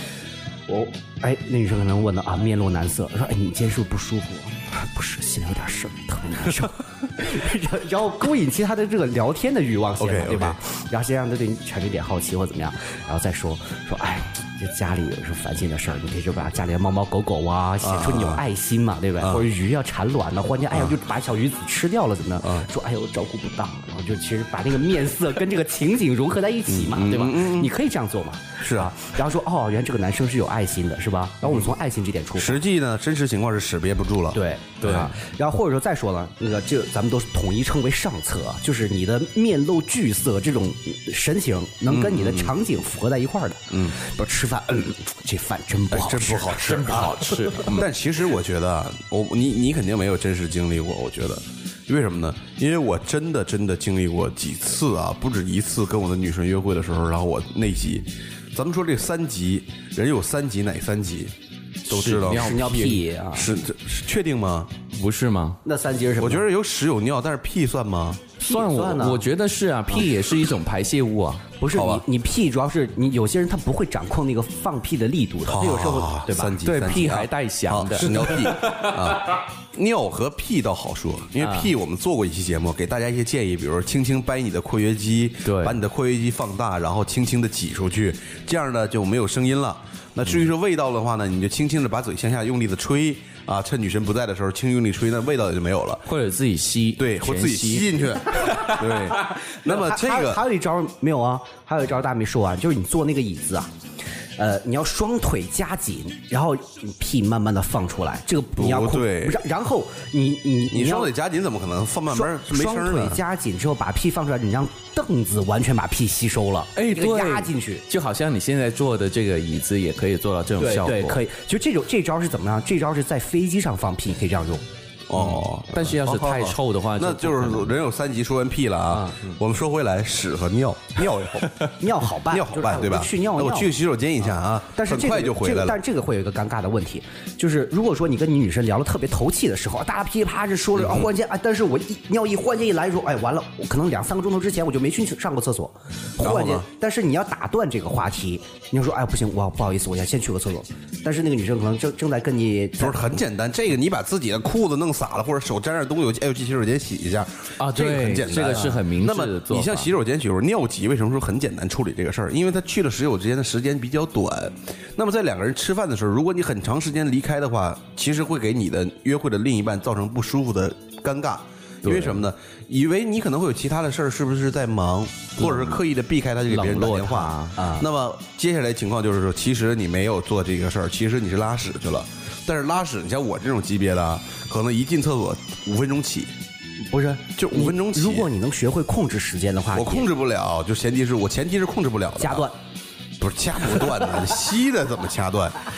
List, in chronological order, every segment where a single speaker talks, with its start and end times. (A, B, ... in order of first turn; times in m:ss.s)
0:00.7-0:32.6 A
0:10.0-0:10.6 B
0:17.8-0:18.4 B
0:19.2-0:19.4 B
0:26.7-0:27.7 B
0:28.6-0:28.9 B
0:31.4-0:31.7 B
0:32.3-0:35.1 B
0:34.3-0:47.0 A
0:34.8-0:35.1 C
0:41.9-0:42.5 B
0:43.7-0:44.0 B
0:45.9-1:01.3 B
0:46.6-0:47.9 C
1:01.9-1:03.0 C
1:01.9-1:04.7 B
1:02.3-1:03.5 A
1:04.9-1:05.6 C
1:05.6-1:06.4 A
1:06.2-1:08.2 B
1:08.4-1:09.3 A
1:08.4-1:11.4 C
1:11.6-1:16.6 A
1:11.7-1:12.0 B
1:15.4-1:36.0 B
1:16.6-1:19.4 C
1:21.4-1:21.7 C
1:25.4-1:25.8 C
1:36.0-1:39.3 C
1:37.0-1:40.4 B
1:39.6-1:43.7 A
1:44.4-1:51.1 A
1:48.6-1:49.4 B
1:50.7-1:53.2 B
1:52.1-1:57.8 A
1:56.8-2:01.2 C
2:00.6-2:04.6 A
2:05.1-2:11.6 B
2:05.1-2:07.7 C
2:08.9-2:09.3 A
2:11.8-2:13.7 A
2:12.3-2:15.8 B
2:14.7-2:33.0 A
2:20.7-2:21.1 B
2:26.2-2:26.7 B
2:32.8-3:06.3 B
2:37.6-2:39.9 C
2:51.8-2:52.2 C
2:55.4-2:55.7 C
2:56.5-2:57.6 C
2:57.6-2:57.8 A
3:06.9-3:10.1 A
3:07.4-3:08.3 B
3:09.7-3:12.5 B
3:12.2-3:12.6 A
3:13.2-3:15.6 B